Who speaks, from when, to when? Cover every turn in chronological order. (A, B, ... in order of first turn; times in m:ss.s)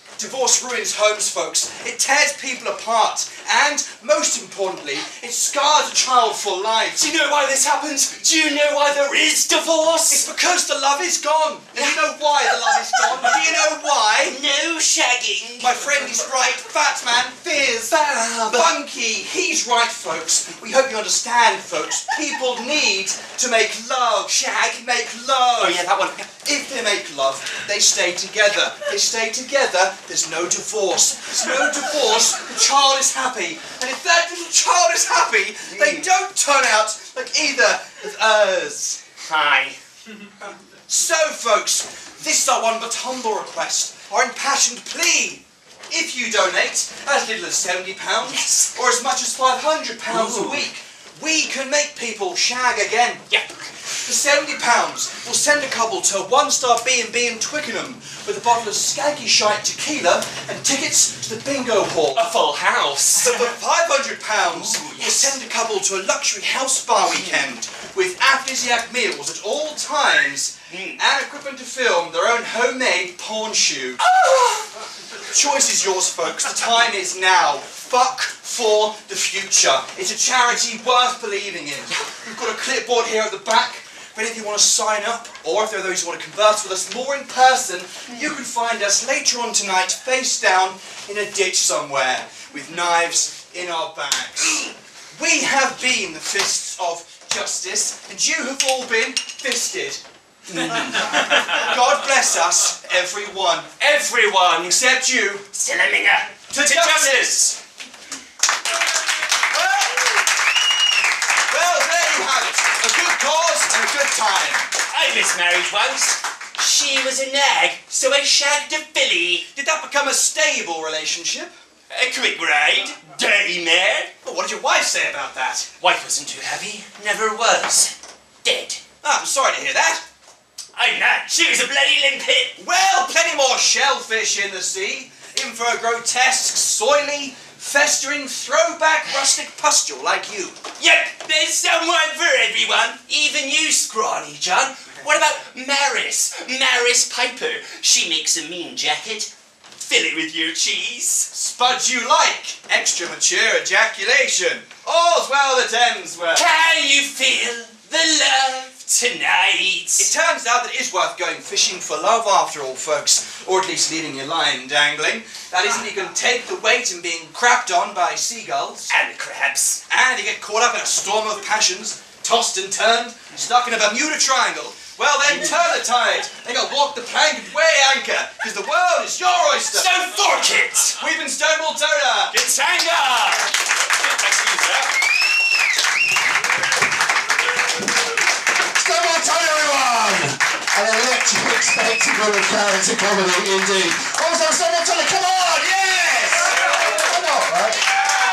0:00.2-0:07.1 A
0:07.0-0:10.2 B
0:10.1-0:14.4 A
0:11.7-0:13.3 B
0:14.2-0:15.9 B
0:15.6-0:18.0 A
0:17.9-0:18.7 B
0:18.5-0:25.8 A
0:25.6-0:26.3 B
0:26.3-0:39.0 A
0:35.7-0:36.0 B
0:39.2-0:39.8 B
0:40.9-0:53.2 A
0:48.4-0:48.7 B
0:50.1-0:50.6 B
0:54.0-1:02.3 A
1:02.1-1:03.5 B
1:03.2-1:14.0 A
1:04.5-1:05.3 B
1:10.7-1:11.0 B
1:14.0-1:14.7 B
1:15.2-1:40.0 A
1:40.5-1:43.7 A
1:40.6-1:41.6 B
1:43.8-1:44.8 B
1:44.6-1:45.4 A
1:45.5-1:47.6 B
1:46.5-1:47.3 A
1:49.4-1:50.2 A
1:51.5-1:54.6 A
1:54.9-1:59.4 B
1:59.5-2:01.5 A
2:01.9-2:04.1 B
2:04.2-2:05.7 A
2:05.8-2:07.9 B
2:08.4-2:08.8 B
2:09.0-2:10.0 A
2:10.7-2:12.5 B
2:12.6-2:20.6 A
2:20.8-2:31.3 B
2:31.3-2:36.5 A
2:36.3-2:40.1 B
2:40.0-2:48.9 A
2:48.9-2:49.8 B
2:49.9-2:59.9 A
2:55.3-2:55.6 B
2:59.7-3:01.0 B
3:00.9-3:02.3 A
3:02.3-3:04.9 B
3:08.6-3:17.8 C